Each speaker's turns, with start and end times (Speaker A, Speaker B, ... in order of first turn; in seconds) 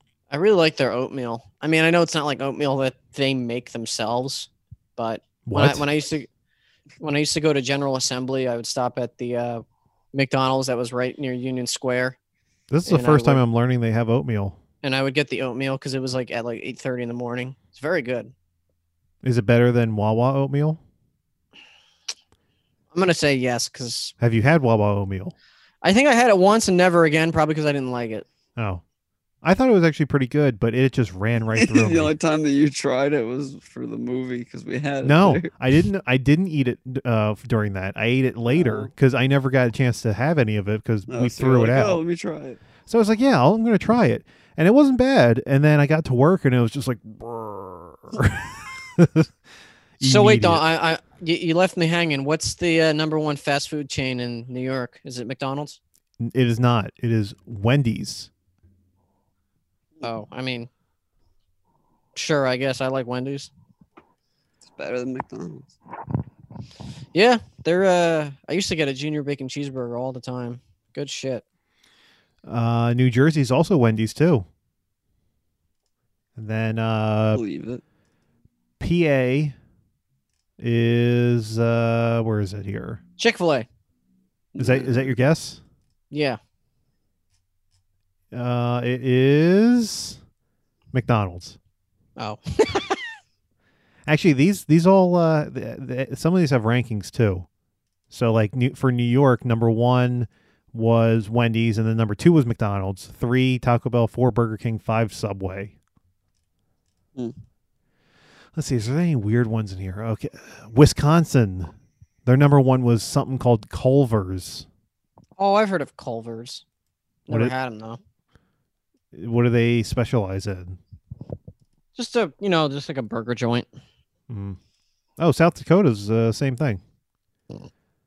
Speaker A: 0.3-6.3, 7.0-12.2, 12.8-13.4, 14.8-18.3, 22.9-24.1, 25.8-28.2, 50.0-55.8, 60.0-60.7, 62.1-63.5, 67.1-71.4, 83.2-83.7, 86.1-86.4, 92.2-93.0, 115.4-116.6, 117.3-118.0, 122.0-123.7
Speaker B: 5.5-5.8, 12.7-14.6, 19.2-20.8, 24.2-25.3, 28.6-28.8, 29.4-32.1, 35.0-42.0, 42.9-49.3, 50.0-50.6, 56.2-58.3, 72.4-74.5, 76.3-77.4, 78.8-79.5, 80.6-83.0, 84.6-85.6, 88.3-90.2, 90.9-91.6, 94.0-97.5, 98.1-105.7, 108.5-111.7, 112.2-114.7, 119.1-120.8, 124.3-124.6, 125.2-126.8
Speaker C: 31.6-35.5, 38.5-38.9, 41.1-42.6, 64.6-65.8, 77.3-77.8, 84.5-85.1